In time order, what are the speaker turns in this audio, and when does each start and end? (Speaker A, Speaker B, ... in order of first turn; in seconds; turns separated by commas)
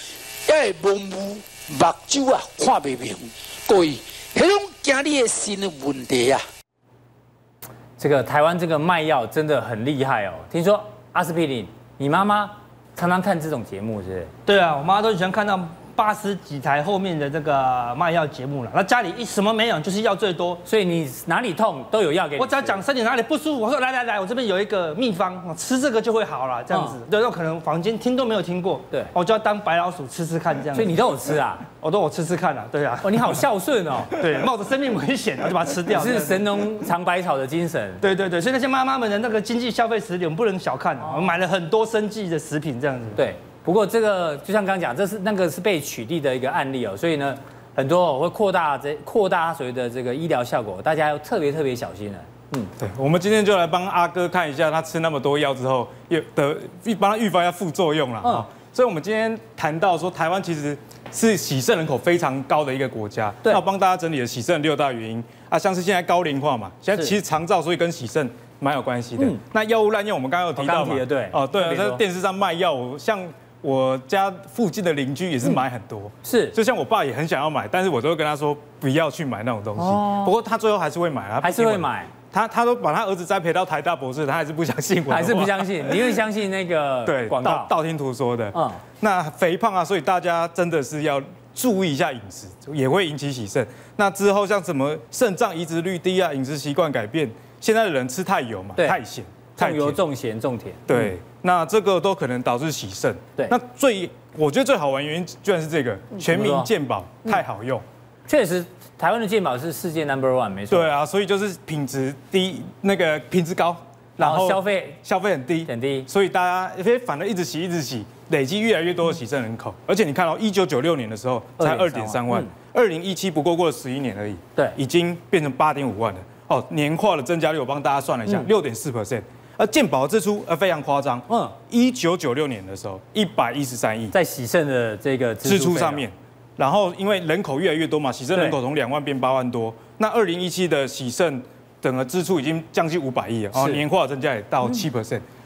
Speaker A: 0.5-6.4, Speaker B: 8.0-14.3, Speaker C: 14.5-20.6, Speaker B: 20.7-22.8, Speaker C: 22.4-31.0, Speaker B: 26.7-27.0, Speaker B: 30.7-31.6, Speaker C: 31.7-33.4, Speaker B: 33.0-34.1, Speaker C: 34.1-36.8, Speaker B: 35.9-38.0, Speaker C: 38.0-43.2, Speaker B: 43.2-52.7, Speaker D: 52.8-86.2, Speaker B: 70.6-72.0, Speaker B: 76.2-76.5, Speaker B: 79.8-80.3, Speaker B: 81.4-82.1, Speaker B: 85.1-87.7, Speaker D: 87.0-100.0, Speaker B: 88.5-88.8, Speaker B: 99.6-101.1, Speaker D: 100.9-107.8, Speaker B: 106.2-106.7, Speaker B: 108.3-110.9, Speaker D: 110.7-134.1, Speaker B: 114.2-115.0, Speaker B: 115.7-116.1, Speaker B: 121.6-122.5, Speaker B: 131.3-131.5, Speaker B: 134.1-136.0, Speaker D: 135.4-145.2, Speaker B: 143.6-143.8